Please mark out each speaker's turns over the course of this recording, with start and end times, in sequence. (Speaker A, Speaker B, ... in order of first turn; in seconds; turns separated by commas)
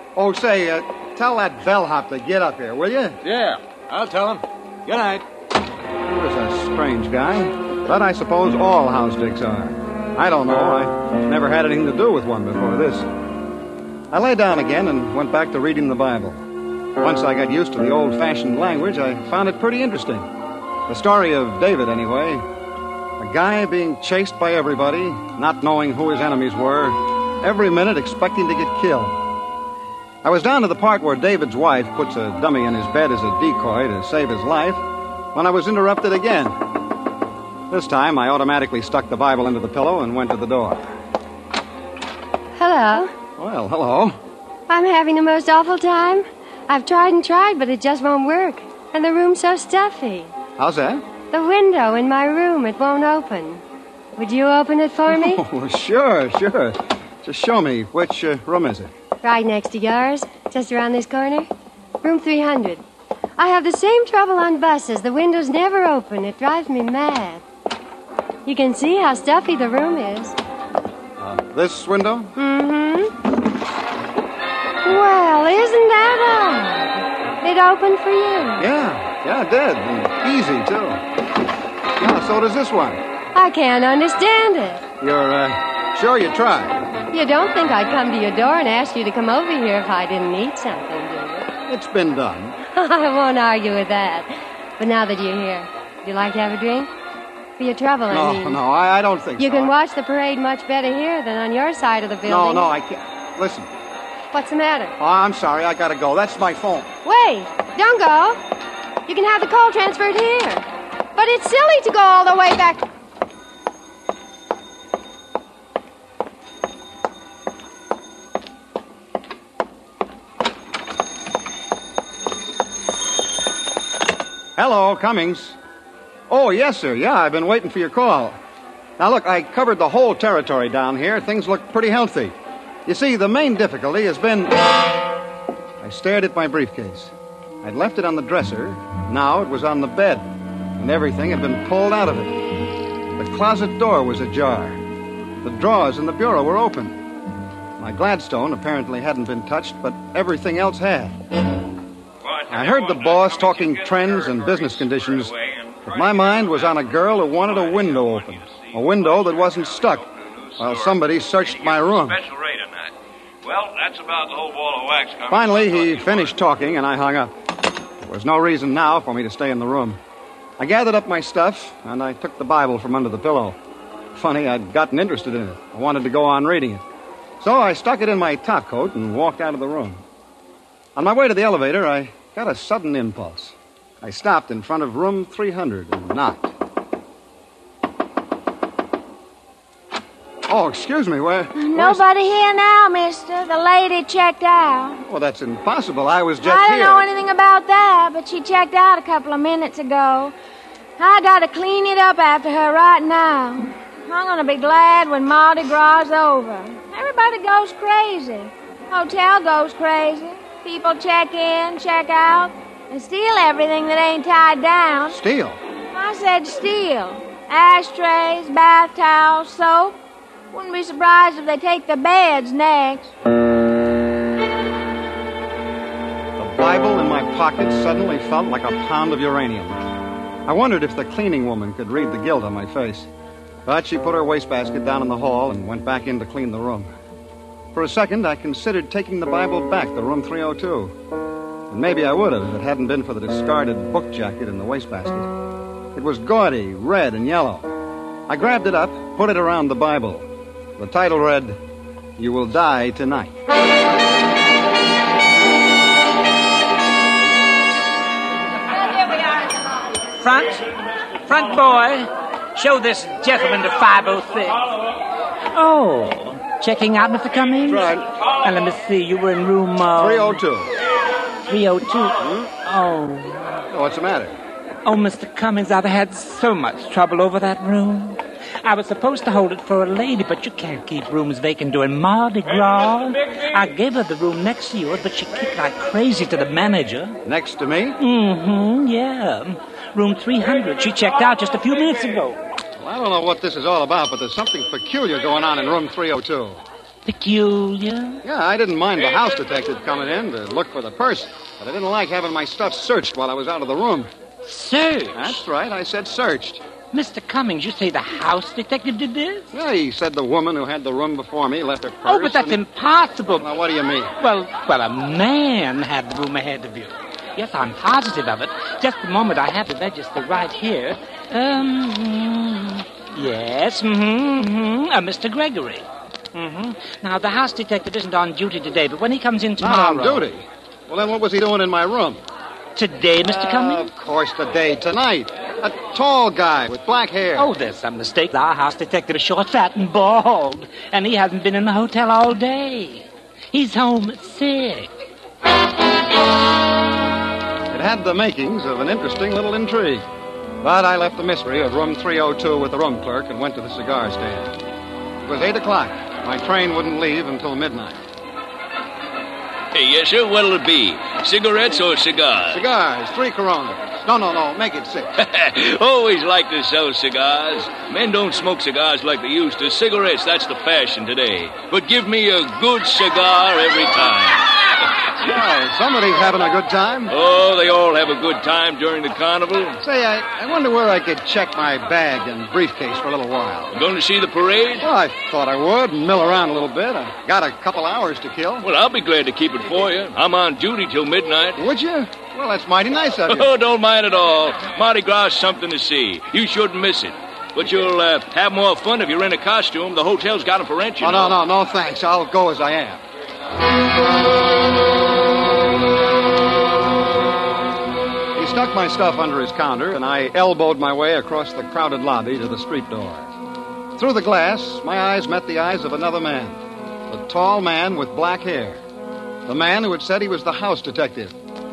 Speaker A: 0.2-3.2, Speaker B: 3.2-5.2, Speaker A: 6.1-13.1, Speaker A: 14.1-16.4, Speaker A: 17.0-20.3, Speaker A: 20.9-22.4, Speaker A: 23.2-29.2, Speaker A: 30.2-36.6, Speaker A: 37.7-40.9, Speaker C: 42.6-43.1, Speaker A: 43.4-44.2, Speaker C: 44.7-50.3, Speaker A: 50.6-51.0, Speaker C: 51.3-53.6, Speaker C: 54.2-55.4, Speaker A: 55.1-58.9, Speaker C: 59.2-61.5, Speaker C: 62.0-62.8, Speaker C: 63.4-67.4, Speaker C: 68.5-70.4, Speaker A: 71.2-72.3, Speaker C: 72.4-73.1, Speaker C: 74.8-78.7, Speaker A: 78.6-81.0, Speaker A: 82.0-83.0, Speaker C: 83.3-84.8, Speaker A: 85.0-86.9, Speaker C: 87.1-91.5, Speaker A: 91.7-92.6, Speaker C: 92.7-96.9, Speaker C: 97.6-98.6, Speaker A: 98.1-99.7, Speaker C: 99.4-102.7, Speaker A: 102.3-103.7, Speaker C: 104.3-104.9, Speaker A: 105.0-106.9, Speaker C: 107.0-108.4, Speaker C: 109.1-112.8, Speaker A: 124.6-125.6, Speaker A: 126.3-128.4, Speaker A: 129.0-132.3, Speaker A: 132.9-134.6, Speaker A: 135.8-142.4, Speaker A: 143.2-144.8, Speaker A: 145.4-147.0, Speaker A: 147.8-151.2, Speaker D: 152.2-166.4, Speaker A: 152.5-155.3, Speaker A: 155.8-160.1, Speaker A: 160.6-162.2, Speaker A: 165.3-167.3, Speaker A: 168.0-170.0, Speaker A: 170.6-173.6, Speaker A: 174.1-176.8, Speaker A: 177.4-180.0, Speaker A: 181.0-186.5, Speaker A: 190.5-192.0, Speaker E: 191.6-195.0, Speaker A: 195.0-197.1, Speaker E: 196.4-200.3, Speaker E: 201.0-215.2, Speaker A: 215.1-215.6, Speaker E: 215.9-220.0, Speaker E: 220.5-223.1, Speaker A: 226.4-229.9, Speaker A: 230.5-233.1, Speaker A: 233.7-236.9, Speaker A: 237.7-240.9, Speaker A: 241.7-245.3, Speaker A: 245.9-247.8, Speaker A: 248.3-250.3, Speaker A: 250.8-251.6, Speaker A: 252.2-253.3, Speaker F: 260.2-260.6, Speaker F: 261.3-264.7, Speaker F: 265.5-270.4, Speaker A: 267.7-268.1, Speaker A: 270.0-270.7, Speaker F: 271.5-273.6, Speaker A: 272.2-272.5, Speaker A: 273.7-274.4, Speaker F: 274.9-287.2, Speaker A: 287.2-288.0, Speaker F: 288.0-292.4, Speaker A: 292.8-296.6, Speaker F: 297.1-298.2, Speaker A: 298.2-304.1, Speaker F: 304.4-305.4, Speaker A: 305.1-306.6, Speaker F: 306.9-309.5, Speaker A: 309.5-312.6, Speaker F: 312.1-313.5, Speaker A: 313.3-314.1, Speaker F: 314.2-330.2, Speaker A: 329.6-332.2, Speaker F: 332.8-333.9, Speaker A: 333.2-337.5, Speaker F: 337.4-344.9, Speaker A: 347.7-350.1, Speaker A: 350.6-354.6, Speaker A: 355.2-358.0, Speaker D: 359.7-362.6, Speaker A: 362.5-365.1, Speaker D: 365.2-374.6, Speaker A: 375.2-377.2, Speaker D: 377.1-379.8, Speaker A: 379.8-383.8, Speaker D: 383.7-384.9, Speaker A: 384.8-388.7, Speaker D: 388.6-391.6, Speaker A: 391.6-393.5, Speaker D: 393.3-401.4, Speaker A: 401.0-403.0, Speaker A: 408.4-413.3, Speaker A: 414.0-418.8, Speaker A: 419.5-421.4